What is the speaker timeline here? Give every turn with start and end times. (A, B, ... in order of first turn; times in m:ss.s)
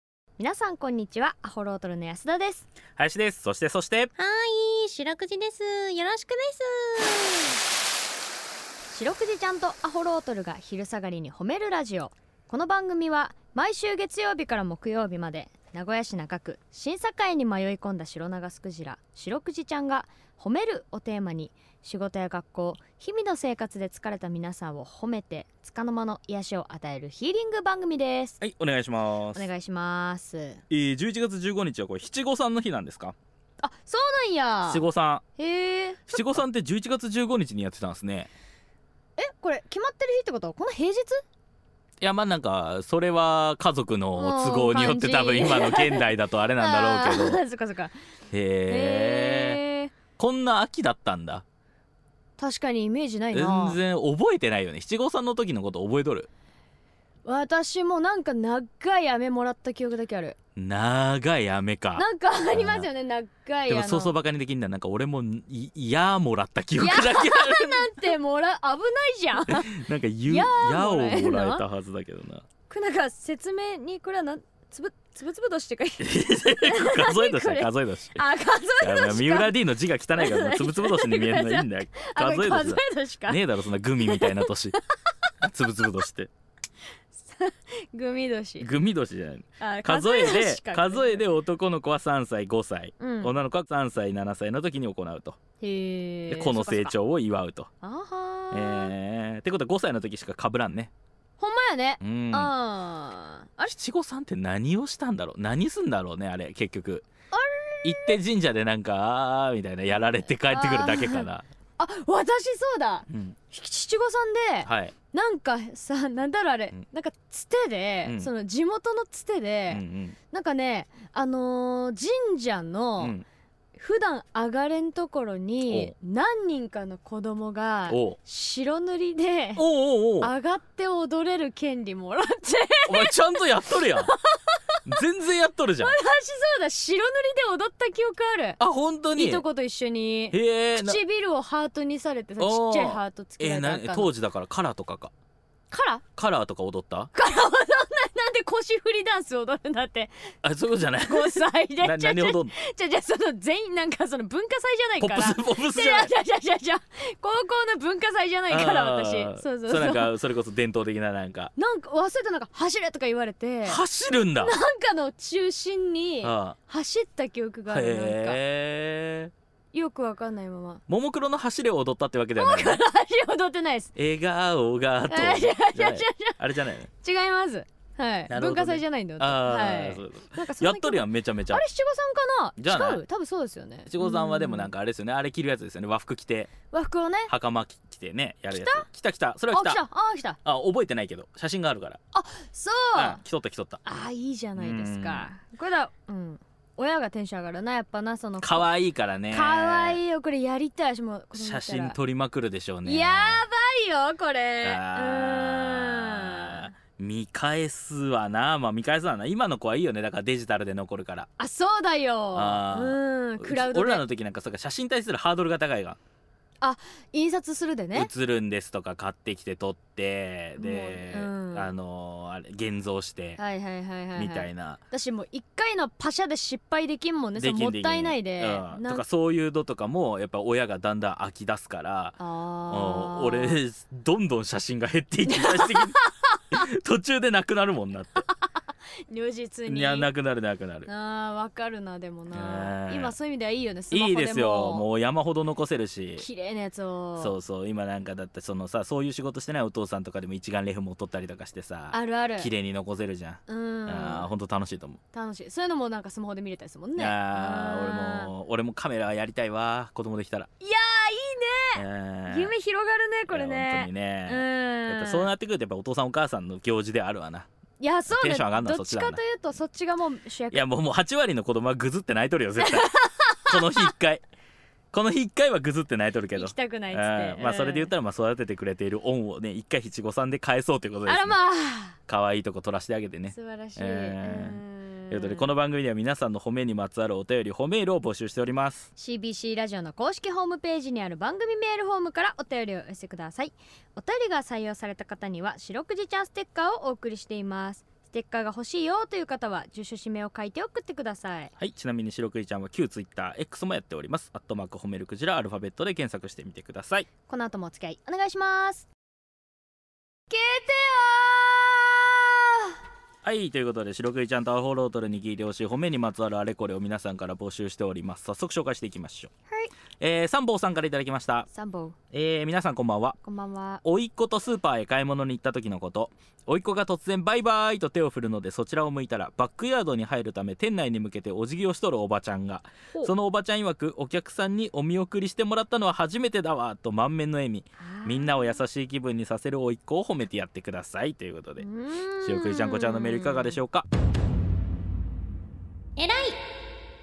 0:00.4-0:02.7 A
0:03.0-0:04.1 B
0:04.2-0:07.6 C
0:08.9-0:28.4 A
0:28.4-0:29.5 B
0:29.4-0:30.6 A
0:30.7-0:33.2 B
0:33.6-0:34.8 A
0:34.7-0:35.2 B
0:35.4-0:36.4 A
0:36.1-0:38.3 B
0:39.2-0:41.2 A
0:42.0-0:47.4 B
0:44.2-0:47.9 A
0:48.3-0:49.6 B
0:48.7-0:49.9 A
0:50.2-0:51.4 B
0:52.4-0:53.8 A
0:53.3-0:56.3 B
0:57.2-1:00.4 A
1:00.6-1:02.9 B
1:02.0-1:04.2 A
1:03.7-1:08.0 B
1:06.8-1:11.6 A
1:09.5-1:12.4 B
1:12.7-1:19.5 A
1:16.0-1:24.8 B
1:20.2-1:23.4 A
1:24.0-1:24.8 A
1:25.4-1:26.3 B
1:27.1-1:28.7 A
1:28.6-1:35.4 B
1:29.6-1:31.2 A
1:33.0-1:33.3 A
1:35.6-1:36.9 A
1:36.3-1:37.7 B
1:37.8-1:38.9 A
1:38.5-1:40.9 B
1:41.4-1:43.7 A
1:42.0-1:42.5 B
1:43.6-1:47.0 B
1:47.3-1:48.2 A
1:47.8-1:51.5 B
1:50.4-2:03.2 A
1:53.1-1:53.4 B
1:54.6-1:54.9 B
1:58.0-1:58.3 B
1:59.7-2:00.2 B
2:03.0-2:03.2 B
2:03.8-2:09.6 A
2:05.7-2:05.9 B
2:07.9-2:08.2 B
2:09.6-2:10.3 B
2:10.2-2:13.5 A
2:12.9-2:14.1 B
2:14.0-2:14.8 A
2:14.9-2:16.0 B
2:15.8-2:18.6 A
2:18.6-2:19.4 B
2:19.2-2:24.1 A
2:20.3-2:21.0 B
2:22.4-2:25.1 B
2:25.7-2:26.0 A
2:26.2-2:27.1 B
2:27.1-2:30.3 A
2:30.4-2:32.6 B
2:31.0-2:40.2 A
2:35.0-2:36.1 B
2:38.5-2:41.5 B
2:41.6-2:43.8 A
2:43.6-2:44.6 B
2:44.4-2:48.4 A
2:46.2-2:46.6 B
2:47.7-2:49.3 B
2:49.7-2:50.8 A
2:50.9-2:52.8 B
2:52.4-2:53.9 A
2:54.0-2:56.9 B
2:55.1-2:56.4 A
2:56.9-3:04.7 A
2:58.3-3:01.6 B
3:02.6-3:03.0 B
3:03.9-3:06.5 B
3:06.7-3:07.3 A
3:07.3-3:09.8 B
3:08.5-3:08.9 A
3:09.5-3:10.4 A
3:10.4-3:12.0 B
3:12.1-3:13.2 A
3:13.0-3:13.9 B
3:13.8-3:18.7 A
3:14.6-3:15.3 B
3:18.4-3:20.0 B
3:19.3-3:22.0 A
3:21.3-3:23.4 B
3:22.8-3:26.7 A
3:24.6-3:31.3 B
3:31.4-3:34.0 A
3:32.3-3:36.0 B
3:36.6-3:38.1 A
3:37.9-3:43.4 B
3:40.6-3:41.7 A
3:43.4-3:49.0 A
3:44.2-3:44.8 B
3:47.4-3:52.2 B
3:52.2-3:53.6 A
3:52.7-3:56.0 B
3:55.3-3:56.1 A
3:56.5-3:58.2 B
3:59.1-4:00.1 A
3:59.7-4:00.9 B
4:00.9-4:04.9 A
4:02.3-4:03.2 B
4:03.9-4:06.3 B
4:06.2-4:07.4 A
4:07.2-4:15.0 B
4:11.9-4:12.5 A
4:13.5-4:14.3 A
4:15.1-4:18.3 A
4:17.0-4:20.5 B
4:20.6-4:25.3 A
4:21.8-4:22.5 B
4:23.3-4:27.5 B
4:27.8-4:30.6 A
4:28.1-4:29.2 B
4:30.5-4:34.2 B
4:32.6-4:33.9 A
4:34.9-4:41.4 B
4:36.3-4:37.9 A
4:41.0-4:42.0 A
4:42.1-4:48.9 B
4:43.3-4:45.5 A
4:49.0-5:01.5 A
5:01.6-5:07.1 B
5:07.3-5:08.9 A
5:10.3-5:12.8 A
5:13.2-5:19.3 B
5:20.0-5:21.5 B
5:21.5-5:22.0 A
5:22.1-5:23.2 B
5:23.2-5:23.8 A
5:23.8-5:41.7 B
5:37.8-5:38.6 A
5:41.6-5:43.6 A
5:42.2-5:43.9 B
5:46.0-5:46.4 C